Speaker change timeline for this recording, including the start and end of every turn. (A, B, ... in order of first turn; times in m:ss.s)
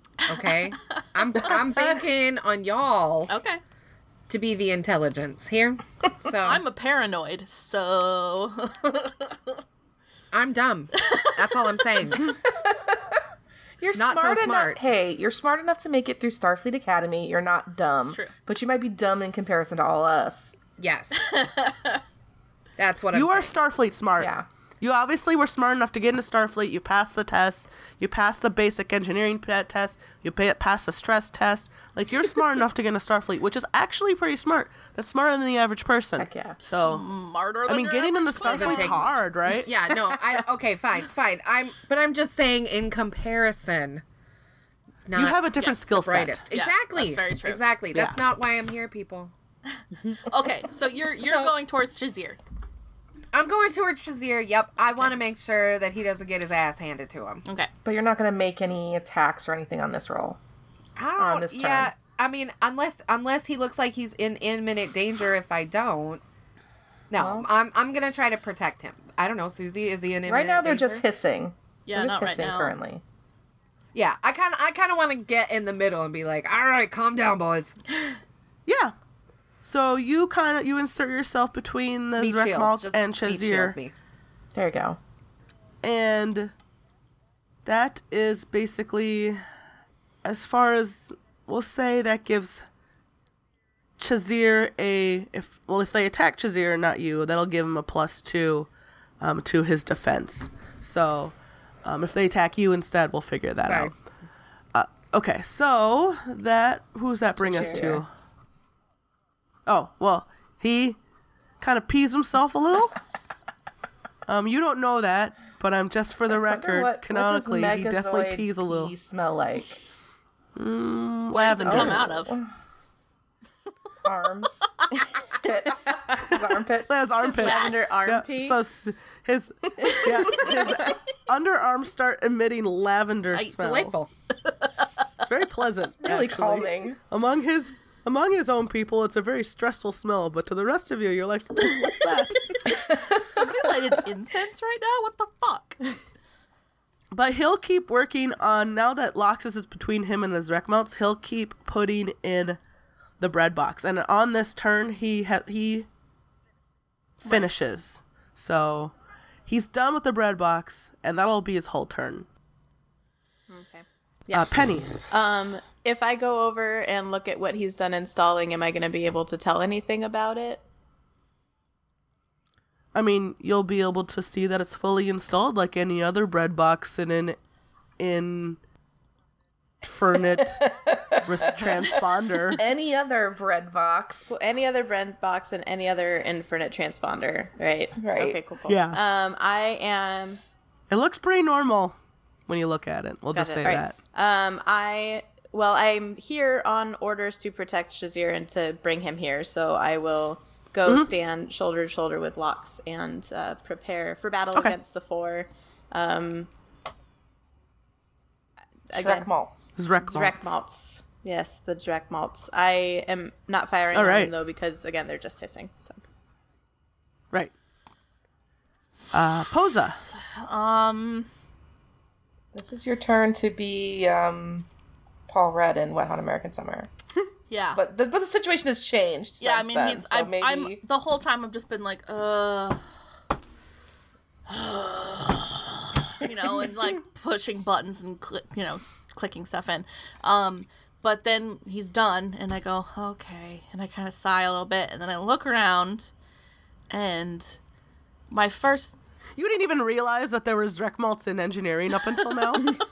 0:00.2-0:03.3 A
0:03.3-0:03.6 B
0:04.3-0:06.6 A
0:06.4-0:09.4 B
0:10.3-0:12.3 A
0:11.0-0:11.3 B
0:12.4-0:13.0 C
0:13.8-0:20.6 C
0:13.9-0:14.8 A
0:18.0-0:18.3 B
0:20.8-0:21.2 A
0:21.2-0:22.0 B
0:22.8-0:23.5 A
0:23.1-0:37.0 D
0:24.2-0:24.4 C
0:36.2-0:36.6 C
0:36.7-0:39.1 B
0:37.6-0:39.7 D
0:38.4-0:39.0 A
0:39.5-0:44.0 A
0:45.1-0:49.3 A
0:45.2-0:46.4 D
0:46.5-0:47.6 B
0:47.9-0:48.2 D
0:50.1-0:52.4 B
0:51.2-0:51.5 A
0:53.3-0:57.4 A
0:57.8-1:00.4 C
1:01.0-1:06.2 A
1:01.2-1:01.9 C
1:07.1-1:11.0 A
1:07.2-1:07.5 C
1:10.3-1:13.0 C
1:11.9-1:12.7 B
1:13.9-1:17.7 A
1:18.6-1:18.9 D
1:19.6-1:23.8 D
1:22.2-1:23.9 A
1:24.5-1:25.0 C
1:25.8-1:26.5 D
1:27.6-1:29.4 D
1:30.2-1:32.6 D
1:34.0-1:38.7 D
1:39.2-1:43.9 D
1:43.6-1:43.9 A
1:44.7-1:48.1 D
1:47.4-1:48.0 C
1:49.6-1:51.0 D
1:51.6-1:53.2 D
1:54.3-1:58.9 D
1:56.3-1:59.8 C
2:00.5-2:02.1 D
2:01.3-2:02.3 B
2:01.6-2:02.5 C
2:04.0-2:07.0 C
2:06.9-2:14.0 D
2:07.3-2:08.6 E
2:07.4-2:07.7 B
2:09.8-2:10.6 E
2:13.3-2:14.1 B
2:13.7-2:14.0 A
2:15.2-2:22.6 D
2:16.0-2:17.0 C
2:22.5-2:25.9 B
2:22.9-2:23.6 C
2:27.1-2:32.6 D
2:33.2-2:35.9 D
2:37.2-2:38.9 D
2:39.5-2:42.3 D
2:43.5-2:43.8 E
2:44.3-2:44.9 D
2:45.1-2:50.6 E
2:52.9-2:57.4 D
2:58.0-2:58.6 D
2:59.8-3:02.6 D
3:00.4-3:04.4 C
3:04.3-3:10.4 E
3:08.0-3:08.4 C
3:08.6-3:09.0 D
3:10.9-3:12.0 D
3:12.5-3:14.0 D
3:13.3-3:26.5 E
3:20.8-3:21.1 D
3:28.9-3:29.3 E
3:28.9-3:29.7 C
3:29.8-3:30.6 D
3:30.0-3:36.0 E
3:33.9-3:34.3 D
3:39.1-3:40.0 D
3:40.1-3:41.3 B
3:42.5-3:44.7 C
3:45.3-3:46.9 C
3:47.5-3:47.8 B
3:47.7-3:50.8 C
3:49.4-3:52.8 B
3:54.5-4:06.1 B
4:06.9-4:07.6 B
4:08.3-4:08.9 B
4:09.4-4:12.8 D